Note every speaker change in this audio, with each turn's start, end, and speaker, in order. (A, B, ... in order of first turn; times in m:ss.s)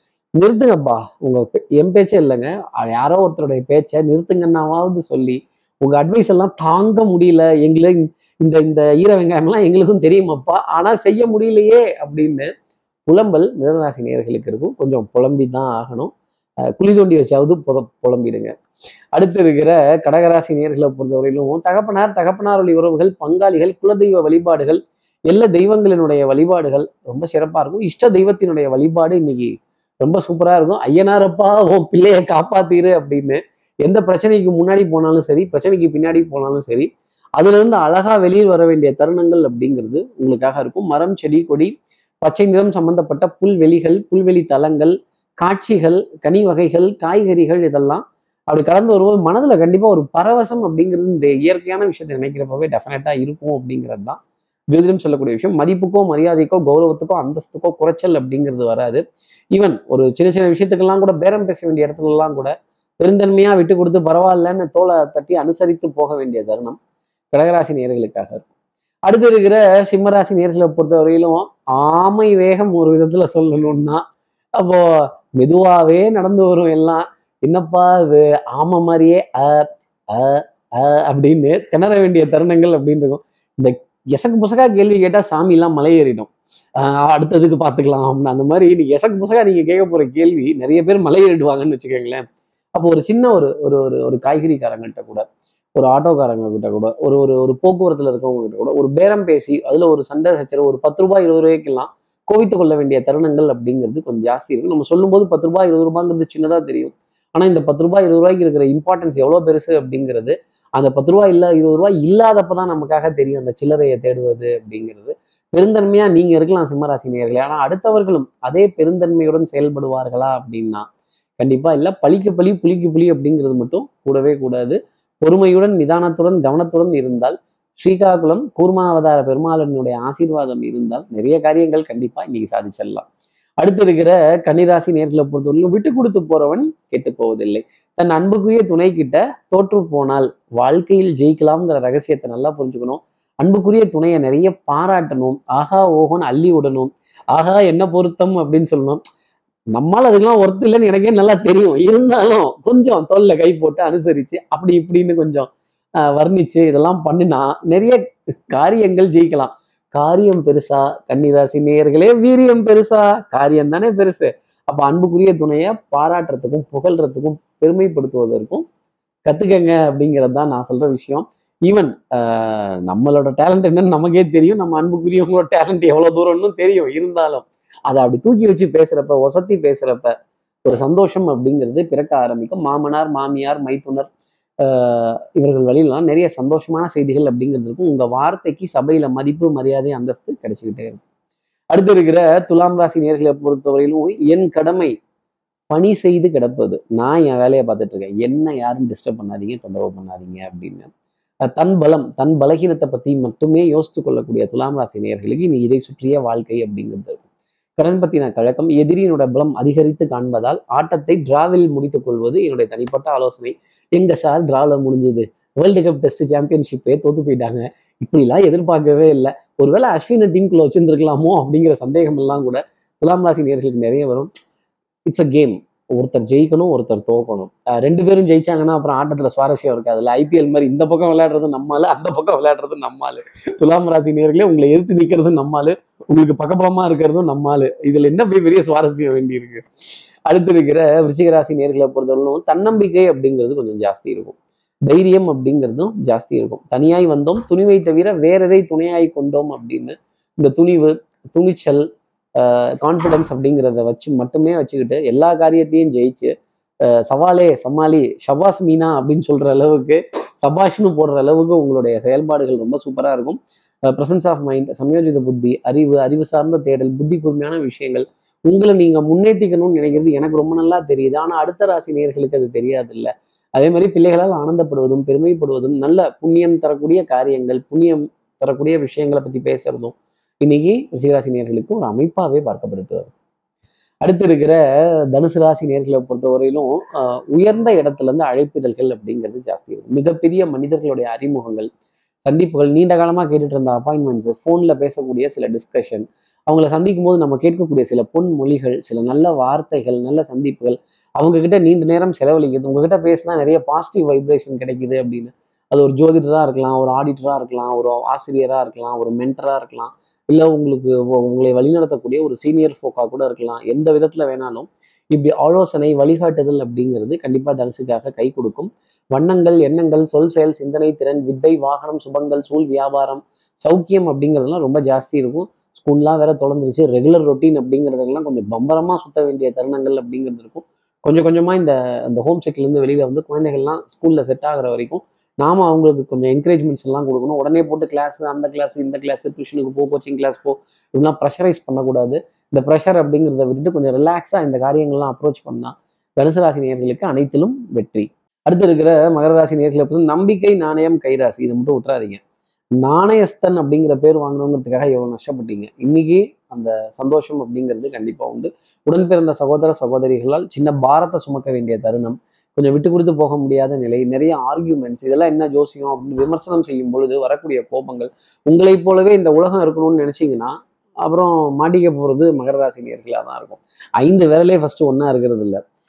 0:00.4-0:12.5 A
0:13.1-0:16.1 A
0:16.8-0:18.5 A
0:19.1-0:29.5 A
0:30.0-0:54.2 A
0:54.7-0:59.0 A
0:59.5-1:06.8 A
1:07.3-1:08.5 A
1:09.1-1:14.0 A
1:14.6-1:32.2 A
1:32.7-1:35.2 A
1:35.8-2:00.8 A
2:01.4-2:13.0 A
2:13.6-2:29.0 A
2:29.7-2:35.5 A
2:36.1-2:38.0 A
2:38.5-2:48.6 A
2:49.3-3:00.1 A
3:00.6-3:04.1 A
3:04.6-3:11.0 A
3:11.7-3:14.9 A
3:15.7-3:20.9 A
3:21.5-3:27.2 A
3:27.8-3:44.3 A
3:45.1-3:59.6 A
4:00.3-4:04.4 A
4:04.9-4:11.8 A
4:12.4-4:16.3 A
4:17.0-4:43.1 A
4:44.0-4:44.6 A
4:45.1-4:51.7 A
4:52.2-5:52.2 A
5:52.8-6:10.5 A
6:11.0-6:15.6 A